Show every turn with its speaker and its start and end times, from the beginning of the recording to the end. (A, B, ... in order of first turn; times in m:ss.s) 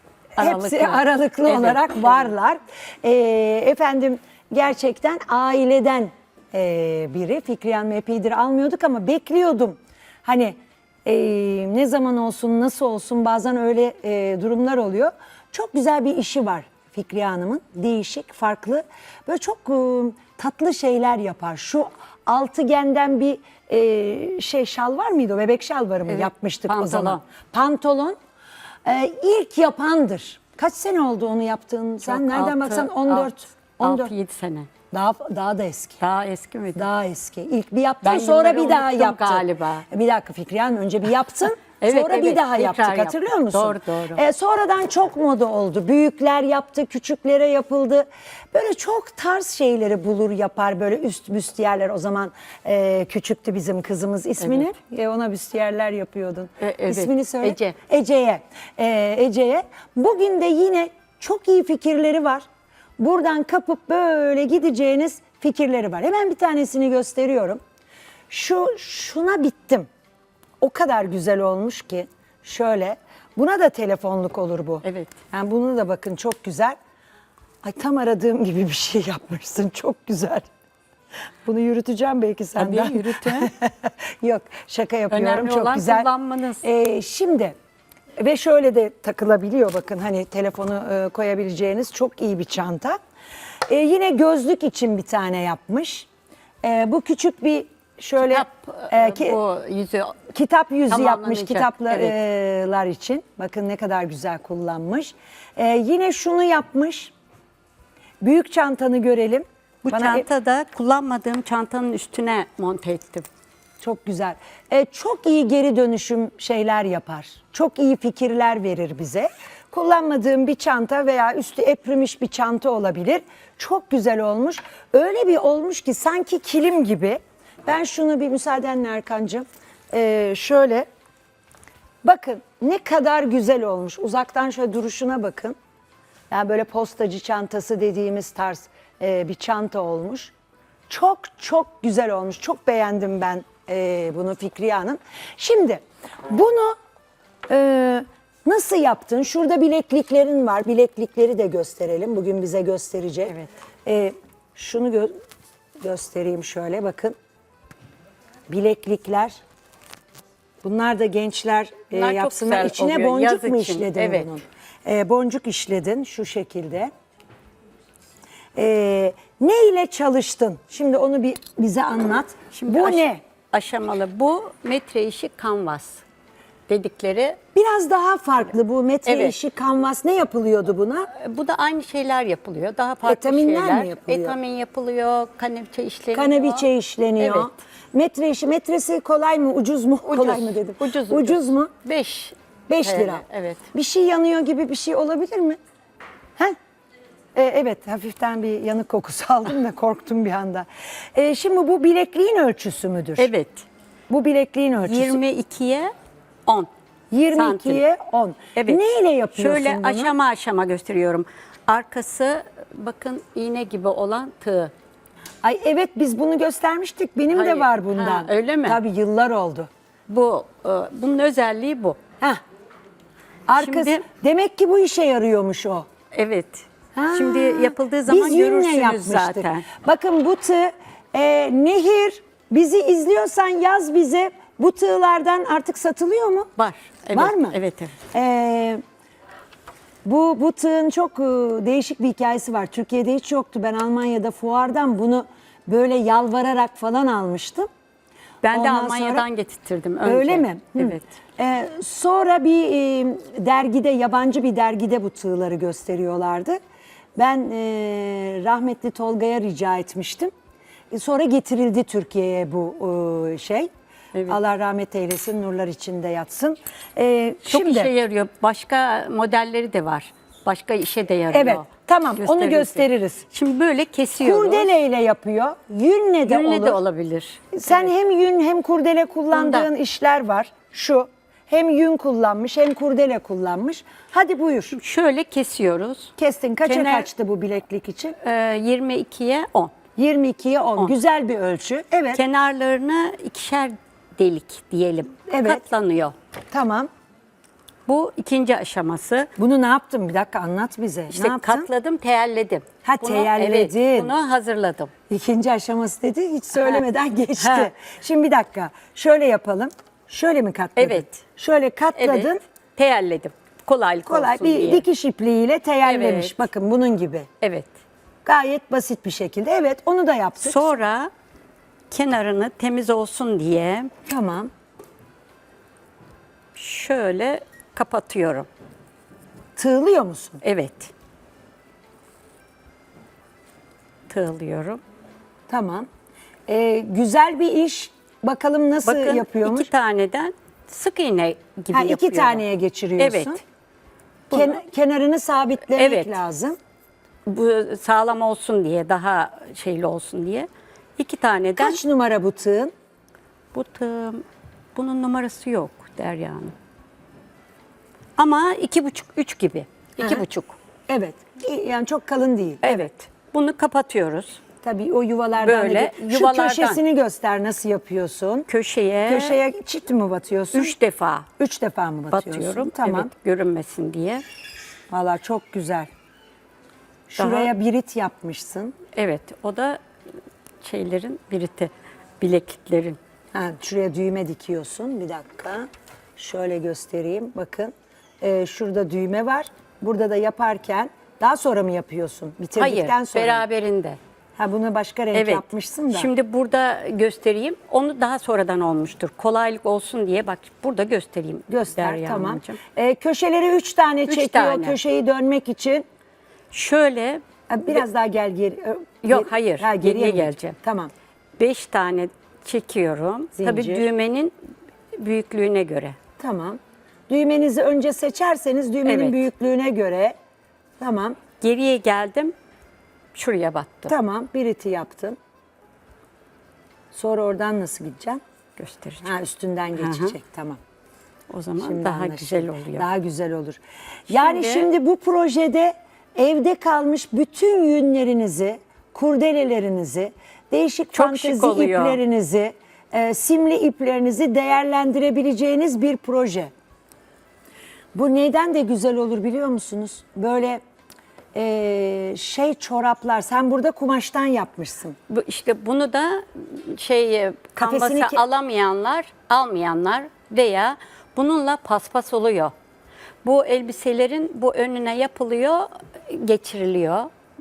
0:00.4-0:02.3 A
0:00.4-0:28.2 B
0:26.1-0:27.2 A
0:28.8-0:34.1 B
0:32.0-0:34.7 A
0:34.9-0:36.0 B
0:36.0-0:36.8 A
0:36.8-1:02.4 B
0:38.0-0:39.8 A
0:41.8-0:44.2 A
0:54.4-0:54.7 A
0:56.6-0:57.8 A
1:03.0-1:07.6 B
1:08.3-1:09.9 B
1:10.6-1:16.8 B
1:14.8-1:15.1 A
1:17.6-1:20.5 B
1:21.4-1:26.1 B
1:22.6-1:23.5 A
1:25.1-1:26.6 A
1:26.6-1:27.5 B
1:28.2-1:33.0 B
1:33.7-1:36.1 B
1:36.6-1:39.4 B
1:38.2-1:40.2 A
1:40.3-1:47.1 B
1:40.9-1:42.2 A
1:48.2-1:50.2 B
1:49.8-1:53.3 A
1:53.8-2:10.8 B
2:12.0-2:15.6 B
2:16.3-2:20.3 B
2:20.9-2:26.8 B
2:27.5-2:35.1 B
2:35.8-2:37.2 B
2:38.5-2:39.4 B
2:40.6-2:46.9 B
2:41.9-2:44.3 A
2:48.5-2:53.2 B
2:52.5-2:56.0 A
2:56.7-2:57.4 A
2:57.5-3:01.1 B
2:59.0-2:59.4 A
3:01.1-3:06.7 A
3:03.0-3:04.4 B
3:06.1-3:11.7 B
3:07.2-3:07.5 A
3:10.1-3:13.7 A
3:12.7-3:15.6 B
3:17.3-3:23.3 B
3:23.2-3:23.6 A
3:24.1-3:25.2 B
3:24.8-3:25.9 A
3:27.1-3:30.1 B
3:27.3-3:27.8 A
3:28.5-3:28.8 A
3:29.3-3:34.7 A
3:35.4-3:39.7 B
3:37.3-3:38.8 A
3:40.1-3:42.0 A
3:43.5-3:45.8 B
3:43.6-3:44.0 A
3:46.1-3:49.7 A
3:46.9-3:56.5 B
3:56.6-3:58.0 A
3:57.1-3:57.6 B
3:58.1-3:58.8 B
4:00.0-4:07.7 B
4:08.4-4:11.0 A
4:08.5-4:09.2 B
4:10.0-4:16.6 B
4:17.2-4:20.3 B
4:20.9-4:23.7 B
4:24.1-4:24.4 A
4:24.2-4:27.9 B
4:27.4-4:34.7 A
4:31.3-4:33.2 B
4:34.2-4:36.8 B
4:36.3-4:37.9 A
4:37.5-4:44.8 B
4:39.3-4:39.7 A
4:44.7-4:47.1 A
4:46.2-4:48.2 B
4:48.2-4:49.7 A
4:50.0-4:52.2 B
4:52.1-4:56.1 A
4:55.3-4:55.6 B
4:56.5-4:56.9 B
4:57.9-4:59.3 A
4:59.4-5:01.7 B
5:01.1-5:04.9 A
5:02.8-5:04.1 B
5:05.1-5:12.4 B
5:06.6-5:06.8 A
5:07.4-5:07.7 A
5:10.8-5:11.2 A
5:11.9-5:14.8 A
5:14.1-5:17.3 B
5:15.8-5:16.4 A
5:17.4-5:17.7 A
5:18.2-5:20.8 B
5:20.4-5:21.1 A
5:21.9-5:23.9 A
5:24.1-5:24.5 B
5:26.5-5:28.5 A
5:29.6-5:30.4 B
5:30.4-5:30.9 A
5:34.1-5:34.8 A
5:35.5-5:35.9 B
5:36.5-5:39.7 B
5:38.8-5:42.4 A
5:41.7-5:43.4 B
5:43.0-5:43.4 A
5:44.3-5:44.6 A
5:44.3-5:46.6 B
5:45.7-5:46.2 A
5:47.2-5:51.8 A
5:51.6-5:52.7 B
5:53.5-5:54.2 A
5:54.7-5:56.5 A
5:58.2-6:00.6 A
6:00.9-6:02.9 B
6:02.6-6:04.4 A
6:04.6-6:08.5 B
6:05.4-6:06.8 A
6:08.5-6:09.4 A
6:09.0-6:10.7 B
6:10.5-6:11.3 A
6:11.4-6:13.1 B
6:12.1-6:14.2 A
6:14.9-6:15.9 B
6:17.1-6:18.7 B
6:17.2-6:17.5 A
6:18.9-6:19.8 A
6:20.6-6:23.0 A
6:23.3-6:33.4 B
6:32.6-6:34.0 A
6:34.4-6:36.1 B
6:35.1-6:42.6 A
6:41.5-6:45.8 B
6:44.1-6:44.8 A
6:46.5-6:47.8 A
6:47.5-6:50.9 B
6:49.0-6:50.6 A
6:51.4-6:54.3 A
6:53.4-6:53.9 B
6:54.9-6:56.0 A
6:56.2-7:00.1 B
6:58.8-6:59.3 A
7:00.8-7:01.2 B
7:01.4-7:02.3 A
7:03.1-7:03.9 A
7:03.9-7:05.2 B
7:06.9-7:08.2 B
7:08.6-7:09.1 A
7:09.0-7:10.6 B
7:09.8-7:10.1 A
7:11.3-7:12.9 A
7:11.6-7:26.5 B
7:14.1-7:14.7 A
7:20.9-7:22.0 A
7:27.9-7:30.6 B
7:31.3-7:35.0 B
7:35.1-7:42.5 A
7:37.6-7:38.2 B
7:43.2-7:47.1 A